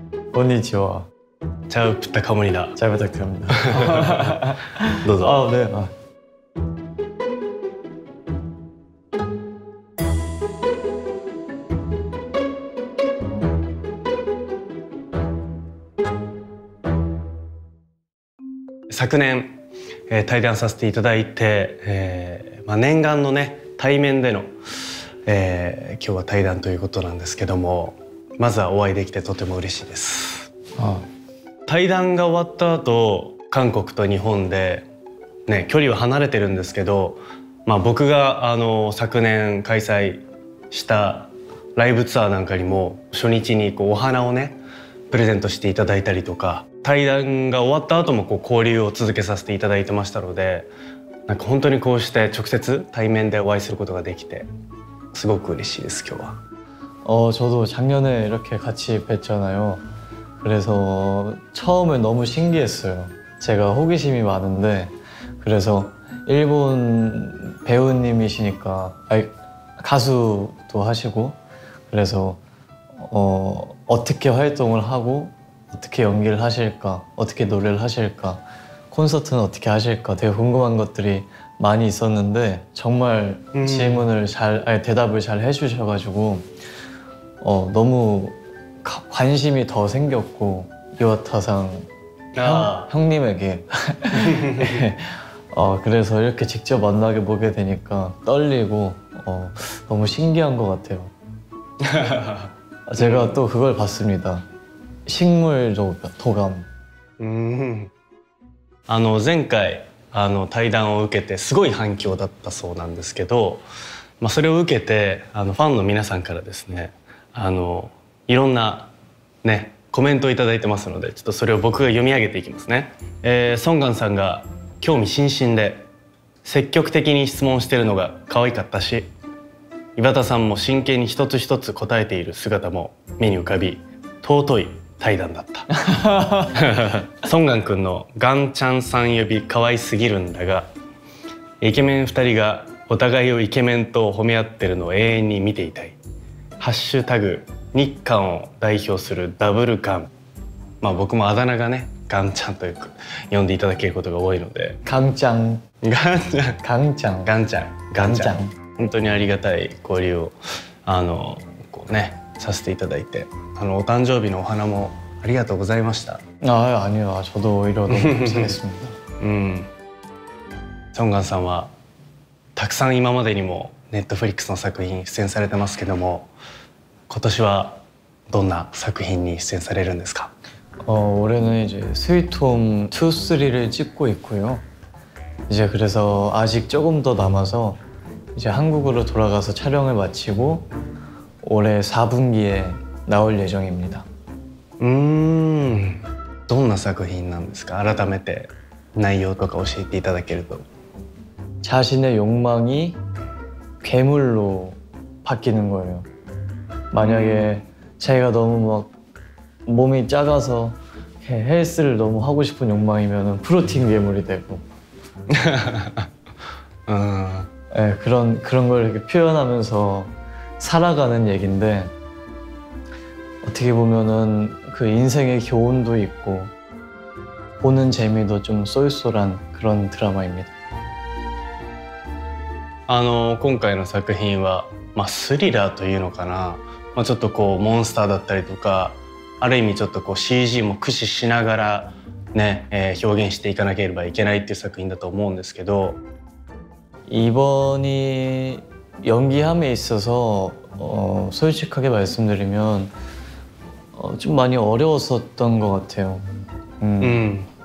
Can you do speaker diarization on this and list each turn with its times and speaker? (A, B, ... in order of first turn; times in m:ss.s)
0:00.3-0:01.1 A
0:01.7-0:02.8 B
0:02.8-0:05.9 A
0:03.5-0:04.4 B
0:05.0-0:05.4 B
0:18.9-0:19.6 B
0:20.1-0:24.5 B
0:25.2-0:30.5 B
0:30.8-0:31.0 A
0:31.7-0:34.8 B
0:35.5-0:44.6 B
0:45.1-0:50.7 B
0:51.3-0:54.5 B
0:55.1-0:56.4 B
0:57.0-0:59.8 A
1:00.4-1:11.4 A
1:11.9-1:12.4 A
1:13.0-1:26.5 A
1:23.5-1:24.1 B
1:27.4-1:41.1 A
1:32.3-1:32.9 B
1:34.2-1:34.8 B
1:41.8-1:43.4 B
1:42.9-1:44.4 A
1:45.0-1:46.7 A
1:47.2-1:47.9 B
1:48.9-1:53.6 B
1:54.2-1:58.9 B
1:59.4-2:05.9 B
2:06.4-2:09.1 B
2:10.0-2:15.7 B
2:15.7-2:16.7 A
2:16.5-2:20.7 B
2:21.6-2:26.0 B
2:26.6-2:30.1 B
2:30.8-2:34.8 B
2:34.8-2:35.6 A
2:35.8-2:36.6 B
2:36.6-2:37.3 A
2:37.2-2:46.2 B
2:38.0-2:38.5 A
2:46.4-2:49.0 A
2:47.9-2:48.6 B
2:49.2-2:49.7 B
2:50.9-2:51.7 B
2:52.6-2:56.3 B
2:57.1-3:00.3 B
3:00.8-3:04.6 A
3:05.5-3:07.8 A
3:08.3-3:10.7 A
3:11.4-3:14.0 A
3:14.8-3:20.6 B
3:21.6-3:23.0 A
3:23.8-3:26.1 A
3:26.9-3:28.9 A
3:27.0-3:27.6 B
3:29.6-3:34.6 A
3:35.3-3:36.1 B
3:36.9-3:37.5 B
3:37.7-3:41.9 A
3:43.4-3:46.5 A
3:47.6-3:50.5 A
3:52.9-4:06.0 B
4:07.1-4:12.9 A
4:14.0-4:16.2 A
4:16.8-4:17.3 A
4:17.0-4:17.5 B